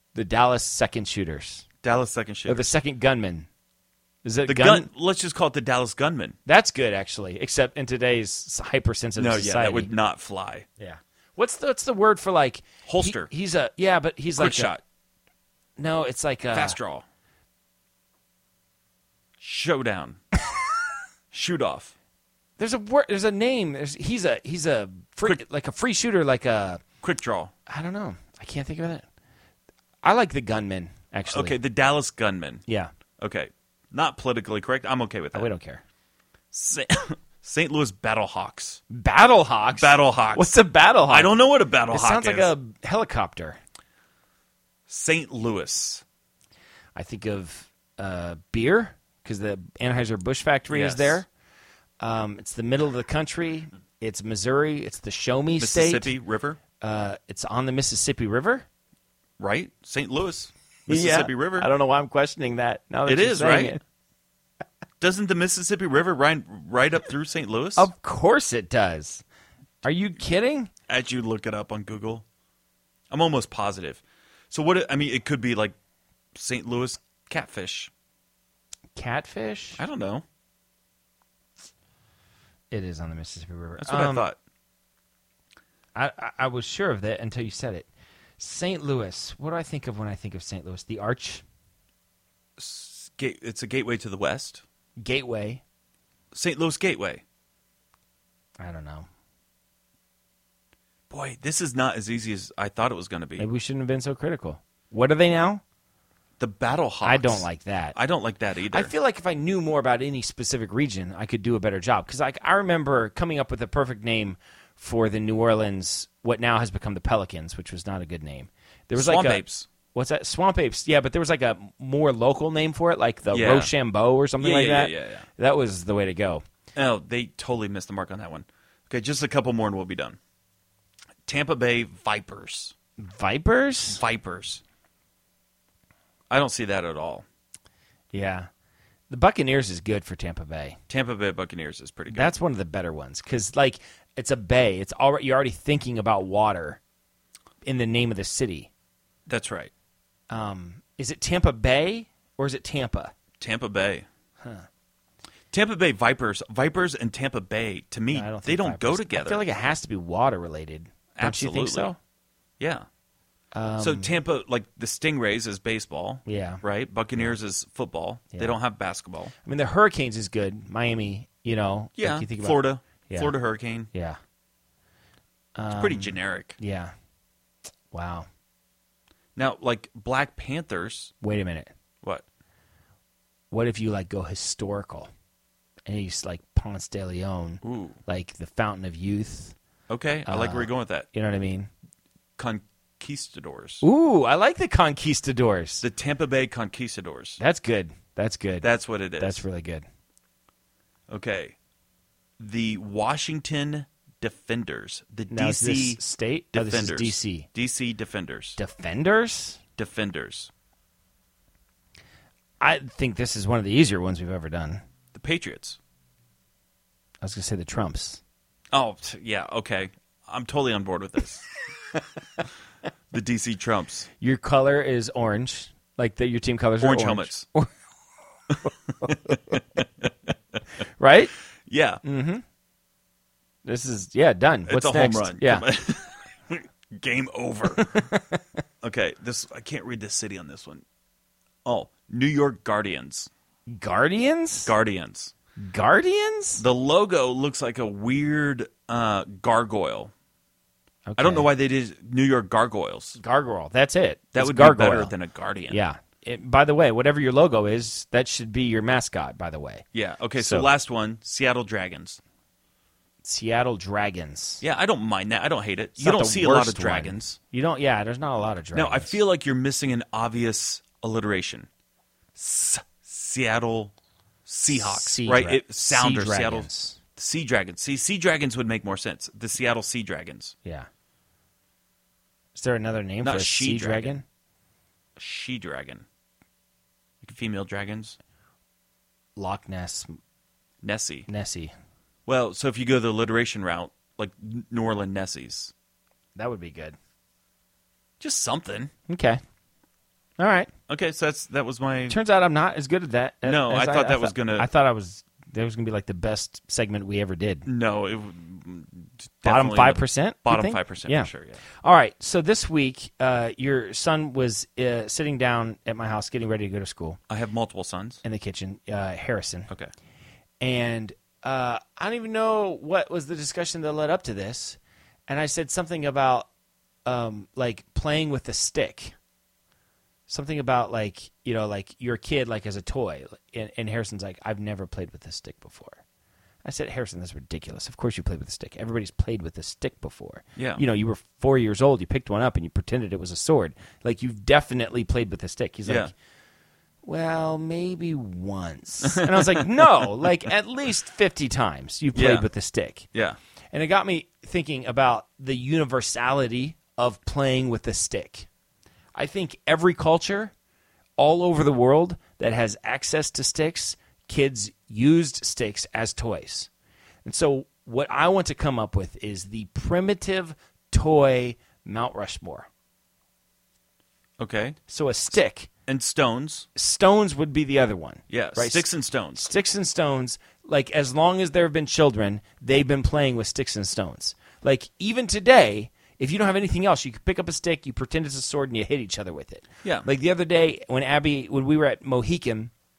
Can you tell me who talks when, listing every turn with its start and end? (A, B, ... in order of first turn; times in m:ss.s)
0:00.1-0:01.6 A
0:01.8-0:02.7 B
0:02.4-0:03.5 A
0:04.2-0:04.9 A
0:04.4-0:06.4 B
0:06.4-0:09.9 A
0:09.2-0:10.6 B
0:10.8-0:14.7 A
0:12.8-0:13.3 B
0:14.4-0:14.8 B
0:15.8-0:16.8 A
0:16.5-0:17.0 B
0:19.4-0:20.2 B
0:21.3-0:21.9 B
0:22.6-0:26.8 A
0:27.0-0:27.5 B
0:27.7-0:29.0 A
0:30.0-0:31.6 A
0:31.3-0:32.6 B
0:32.7-0:32.9 A
0:33.2-0:35.5 B
0:35.3-0:35.8 A
0:36.5-0:38.8 B
0:38.9-0:41.3 A
0:39.7-0:40.6 B
0:41.1-0:42.5 B
0:41.9-0:43.6 A
0:44.9-0:46.0 B
0:47.0-0:51.2 A
0:50.7-0:51.2 B
0:52.0-0:56.1 A
0:55.6-0:56.6 B
0:56.8-0:58.6 A
0:59.4-1:01.7 B
1:00.9-1:03.8 A
1:03.0-1:03.8 B
1:05.0-1:07.9 B
1:07.8-1:09.2 A
1:09.8-1:10.7 A
1:10.9-1:12.2 B
1:13.1-1:15.8 B
1:16.3-1:17.9 B
1:19.0-1:19.8 A
1:19.8-1:20.2 B
1:22.7-1:24.3 A
1:23.8-1:24.4 B
1:25.9-1:31.4 A
1:32.6-1:34.6 B
1:35.0-1:35.6 A
1:36.3-1:37.2 B
1:38.6-1:39.1 A
1:41.1-1:43.5 B
1:43.4-1:45.6 A
1:46.4-1:48.9 B
1:47.0-1:48.0 A
1:48.7-2:06.4 A
1:58.9-1:59.7 B
2:03.3-2:03.7 B
2:04.4-2:05.3 B
2:06.7-2:10.2 B
2:11.2-2:12.7 B
2:13.0-2:14.0 A
2:13.9-2:14.6 B
2:16.3-2:17.2 B
2:18.1-2:18.5 A
2:19.1-2:20.8 A
2:20.9-2:22.3 B
2:22.1-2:26.8 A
2:27.6-2:28.7 A
2:29.3-2:29.7 B
2:30.3-2:33.1 A
2:33.4-2:34.0 B
2:34.4-2:34.7 A
2:35.5-2:39.4 B
2:38.1-2:42.0 A
2:41.1-2:41.9 B
2:42.6-2:42.8 B
2:43.5-2:44.1 A
2:43.8-2:49.3 B
2:46.2-2:46.6 A
2:48.3-2:48.6 A
2:49.4-2:53.3 A
2:52.0-2:53.9 B
2:53.9-2:54.2 A
2:55.6-2:56.9 A
2:55.7-2:56.6 B
2:57.9-2:58.3 A
2:59.4-3:01.1 B
3:01.2-3:01.7 A
3:03.5-3:05.1 A
3:05.9-3:09.6 A
3:07.6-3:08.0 B
3:09.9-3:11.1 B
3:10.2-3:11.7 A
3:12.4-3:13.8 B
3:13.8-3:15.8 A
3:15.8-3:17.4 B
3:17.4-3:19.8 A
3:18.6-3:19.4 B
3:21.1-3:21.6 B
3:22.4-3:26.0 B
3:25.3-3:27.5 A
3:26.5-3:28.6 B
3:28.6-3:29.6 A
3:29.8-3:30.5 B
3:32.6-3:34.8 A
3:35.1-3:35.8 B
3:37.2-3:38.2 A
3:38.7-3:41.4 B
3:43.1-3:44.1 B
3:44.2-3:47.7 A
3:46.8-3:47.4 B
3:48.5-3:50.3 B
3:48.6-3:49.6 A
3:51.0-3:51.3 A
3:51.7-3:52.0 B
3:52.0-3:52.4 A
3:53.6-3:55.6 A
3:54.7-3:58.0 B
3:57.7-3:58.4 A
3:58.8-4:00.8 B
4:01.6-4:03.3 B
4:03.7-4:04.7 A
4:04.6-4:05.3 B
4:05.6-4:06.6 A
4:06.6-4:10.1 B
4:11.1-4:11.5 A
4:11.2-4:13.2 B
4:13.2-4:15.1 A
4:14.3-4:15.8 B
4:15.7-4:19.8 A
4:19.9-4:22.2 B
4:20.4-4:20.7 A
4:23.2-4:24.6 A
4:24.6-4:27.4 B
4:26.0-4:29.2 A
4:28.7-4:31.7 B
4:32.3-4:33.9 B
4:34.4-4:40.5 B
4:34.7-4:37.0 A
4:42.5-4:44.2 A
4:43.2-4:44.2 B
4:45.2-4:46.0 B
4:47.2-4:48.2 B
4:49.4-4:50.2 A
4:50.8-4:51.3 B
4:51.3-4:51.7 A
4:52.2-4:55.7 B
4:56.4-4:57.0 A
4:58.2-4:58.9 B
4:59.1-4:59.4 A
5:00.4-5:00.7 A
5:00.9-5:02.2 B
5:02.1-5:07.7 A
5:03.4-5:04.7 B
5:07.6-5:11.6 B
5:09.4-5:11.3 A
5:11.8-5:17.2 A
5:17.3-5:18.2 B
5:18.2-5:19.7 A
5:20.6-5:26.5 A
5:27.0-5:29.1 A
5:30.3-5:36.0 A
5:36.6-5:46.1 A
5:40.6-5:40.8 B
5:45.8-5:46.1 B
5:47.0-5:53.1 A
5:49.0-5:49.9 B
5:52.1-5:52.5 B
5:53.7-5:58.5 A
5:59.1-6:00.5 A
6:01.2-6:06.7 A
6:07.2-6:12.7 A
6:14.4-6:14.8 B
6:14.9-6:15.7 A
6:15.9-6:16.7 B
6:16.7-6:32.7 A
6:18.3-6:19.5 B